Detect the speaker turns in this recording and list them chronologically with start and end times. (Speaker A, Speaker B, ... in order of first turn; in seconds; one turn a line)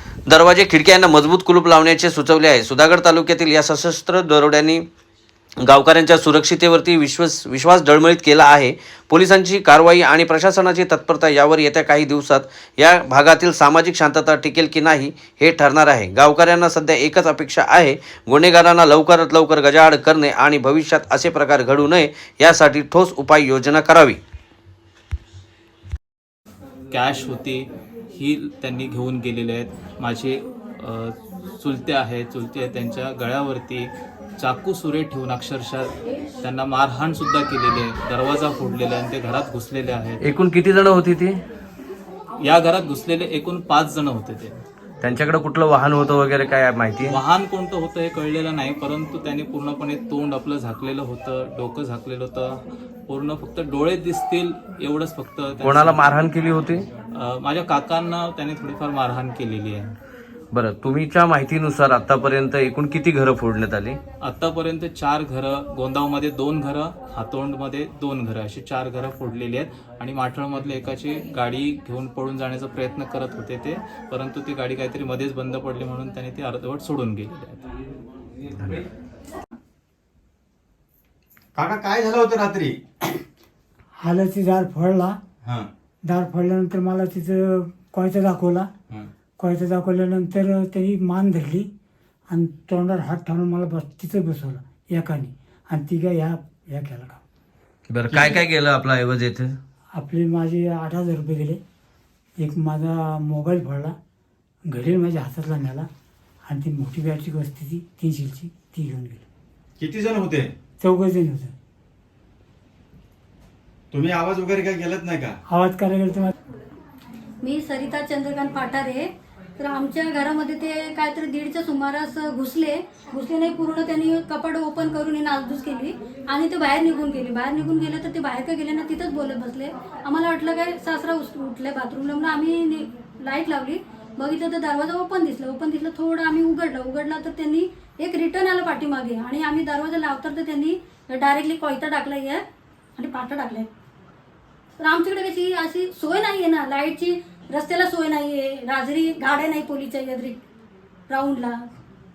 Speaker A: 0.3-4.8
Speaker A: 5.6-24.2
Speaker B: 26.9-40.2
Speaker A: 40.2-41.4
Speaker B: 42.4-44.6
Speaker A: 45.0-47.2
Speaker B: 47.0-56.2
Speaker A: 55.6-56.8
Speaker B: 57.1-59.9
Speaker A: 60.5-64.0
Speaker B: 64.2-77.6
Speaker C: 81.5-82.8
Speaker D: 84.0-85.2
Speaker D: 86.0-88.7
Speaker D: 89.4-91.7
Speaker D: 92.3-97.2
Speaker A: 97.9-99.6
Speaker D: 100.0-101.6
Speaker D: 102.4-103.9
Speaker D: 104.7-105.9
Speaker D: 106.5-109.2
Speaker C: 109.8-110.5
Speaker D: 110.8-111.5
Speaker C: 113.9-115.3
Speaker D: 115.5-116.3
Speaker E: 117.4-119.1
Speaker E: 119.6-142.4
Speaker E: 142.9-143.7
Speaker E: 144.8-150.4
Speaker E: 151.1-151.6